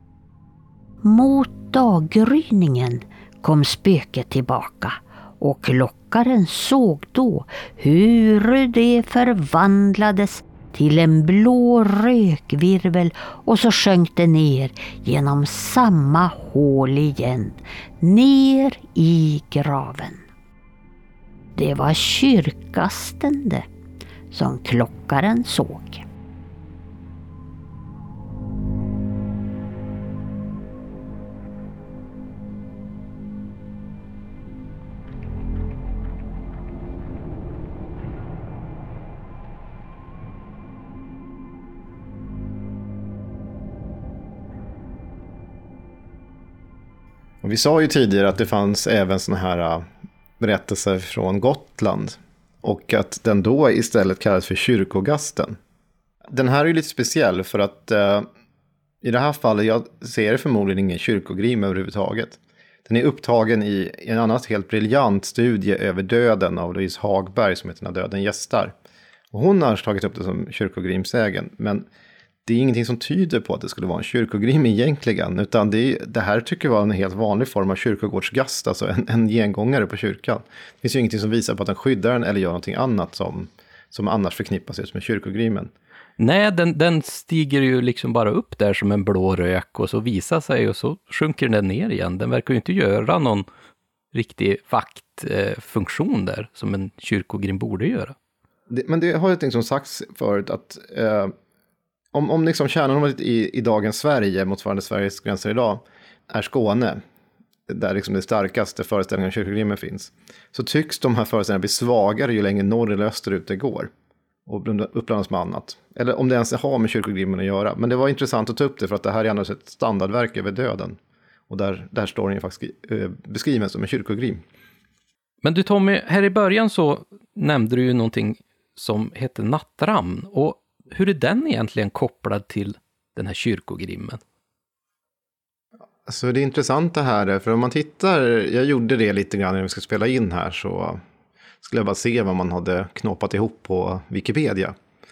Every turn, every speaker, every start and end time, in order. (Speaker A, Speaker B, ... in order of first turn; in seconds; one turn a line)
Speaker A: 1.0-20.2
Speaker A: 21.6-23.6
Speaker A: 24.3-26.1
Speaker B: 47.4-49.8
Speaker B: 50.4-55.6
Speaker B: 56.3-58.2
Speaker B: 59.0-68.7
Speaker B: 69.3-71.8
Speaker B: 72.5-85.7
Speaker C: 86.2-93.5
Speaker C: 94.1-98.1
Speaker B: 98.7-101.3
Speaker B: 102.1-107.0
Speaker B: 107.7-113.9
Speaker B: 114.5-121.0
Speaker B: 121.5-124.4
Speaker C: 125.4-134.2
Speaker B: 136.1-141.0
Speaker B: 141.6-144.7